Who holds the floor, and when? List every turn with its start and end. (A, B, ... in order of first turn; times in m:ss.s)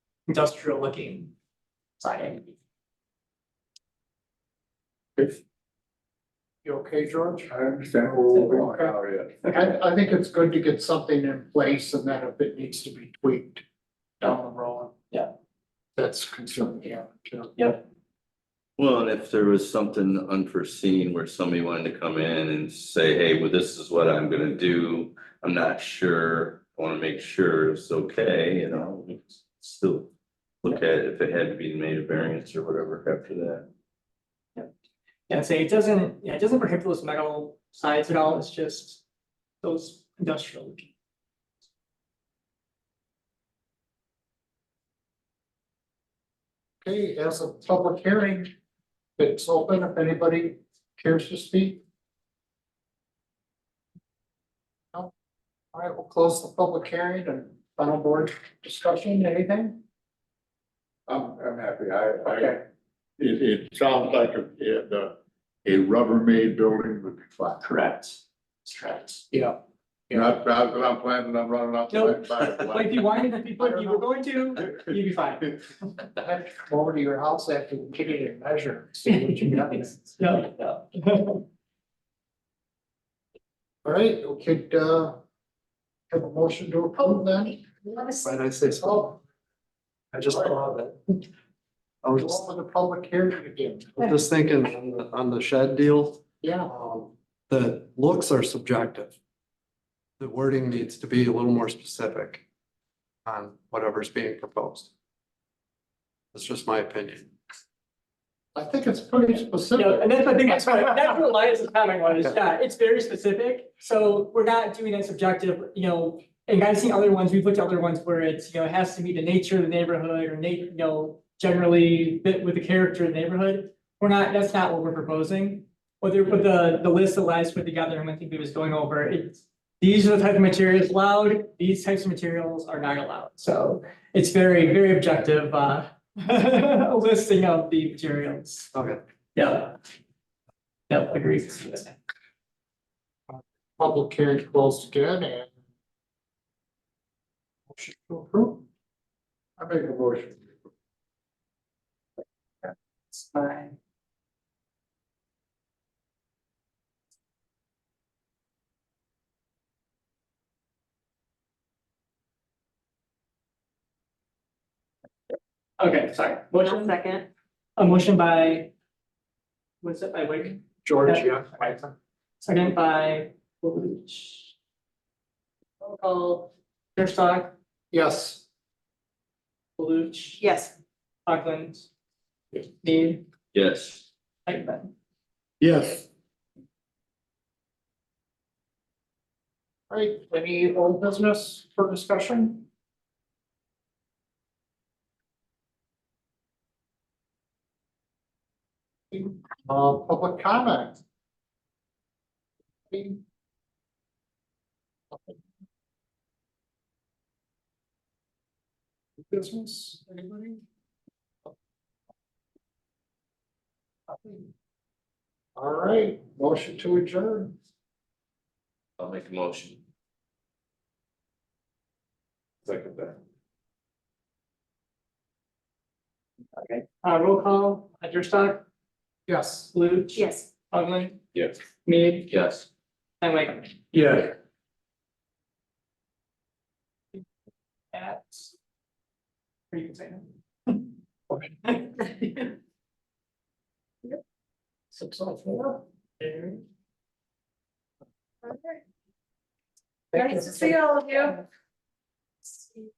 0:00.3-0:01.3 A
0:02.0-0:02.5 A
0:06.6-0:07.6 B
0:07.5-0:09.3 C
0:08.3-0:08.6 A
0:08.4-0:08.9 B
0:09.4-0:13.6 B
0:14.2-0:14.9 B
0:16.0-0:17.6 B
0:18.8-0:30.1 D
0:30.6-0:33.7 D
0:35.3-0:39.0 A
0:39.6-0:40.9 A
0:46.8-0:48.5 B
0:49.2-0:51.8 B
0:55.7-0:59.8 B
1:01.1-1:02.6 C
1:03.2-1:07.6 C
1:07.6-1:09.2 A
1:10.1-1:13.0 C
1:11.9-1:15.6 A
1:13.6-1:14.0 B
1:16.2-1:20.1 B
1:20.0-1:21.4 A
1:23.8-1:25.2 B
1:26.1-1:27.7 B
1:28.2-1:29.2 E
1:28.8-1:29.2 B
1:30.1-1:31.2 E
1:32.0-1:32.4 E
1:32.2-1:34.0 B
1:34.0-1:39.1 E
1:36.4-1:36.7 B
1:40.2-1:42.4 E
1:43.2-1:44.9 E
1:46.3-1:47.3 E
1:48.5-1:50.1 B
1:49.8-2:18.7 A
2:18.7-2:19.0 E
2:19.3-2:19.8 A
2:20.9-2:22.0 A
2:23.3-2:25.5 B
2:27.7-2:28.6 B
2:29.6-2:30.4 C
2:33.1-2:33.7 A
2:45.8-2:47.0 A
2:46.6-2:47.3 F
2:47.8-2:48.7 A
2:49.8-2:51.3 A
2:50.8-2:51.9 B
2:52.4-2:54.5 A
2:56.0-2:56.4 A
2:57.0-2:57.5 A
2:57.9-2:58.4 B
2:59.8-3:00.5 A
3:00.4-3:00.7 F
3:01.2-3:01.9 A
3:02.7-3:03.2 A
3:03.5-3:04.0 D
3:04.4-3:04.9 A
3:05.6-3:06.0 C
3:09.9-3:12.6 B
3:19.1-3:21.0 B
3:22.9-3:23.2 B
3:25.1-3:25.4 B
3:29.2-3:30.6 B
3:34.1-3:34.5 B
3:35.6-3:37.5 B
3:39.0-3:39.8 D
3:42.6-3:43.2 D
3:46.6-3:48.6 A
3:49.3-3:49.7 B
3:49.7-3:51.2 A
3:50.1-3:50.5 F
3:51.8-3:52.3 A
3:52.3-3:52.7 D
3:53.2-3:53.7 A
3:57.9-3:58.5 A
3:59.7-4:00.8 A
4:01.6-4:02.5 A
4:05.0-4:05.8 B
4:06.2-4:06.6 A
4:08.4-4:08.7 F
4:10.1-4:11.4 F
4:10.2-4:10.7 A
4:12.5-4:12.8 F